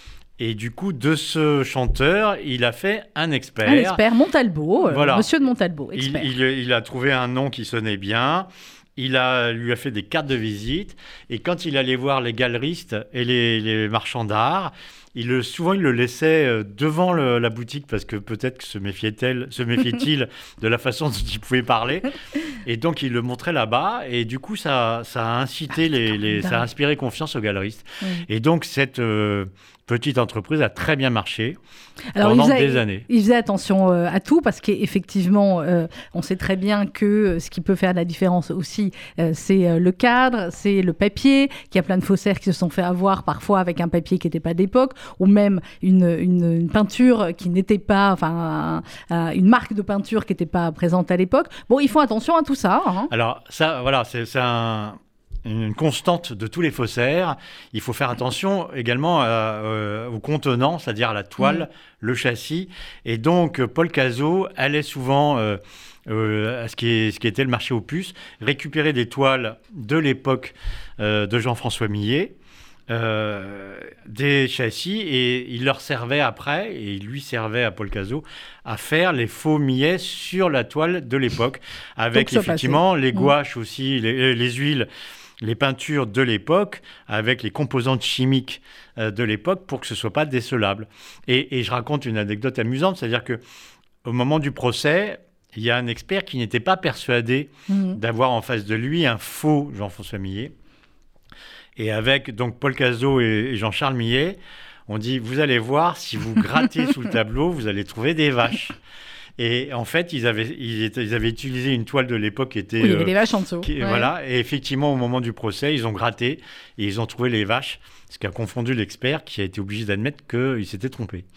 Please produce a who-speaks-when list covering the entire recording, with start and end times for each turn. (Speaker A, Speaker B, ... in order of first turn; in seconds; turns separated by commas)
Speaker A: 0.4-4.0, Speaker B: 3.6-6.3, Speaker A: 4.9-5.3, Speaker A: 5.9-22.1, Speaker A: 22.6-31.6, Speaker B: 26.4-26.6, Speaker B: 32.1-53.1, Speaker A: 32.2-33.1, Speaker A: 53.1-72.3, Speaker A: 72.9-84.9, Speaker B: 82.1-83.3, Speaker A: 85.4-93.4, Speaker A: 94.0-100.5, Speaker B: 97.7-98.0, Speaker A: 101.8-108.8, Speaker A: 109.4-121.2, Speaker B: 112.8-114.1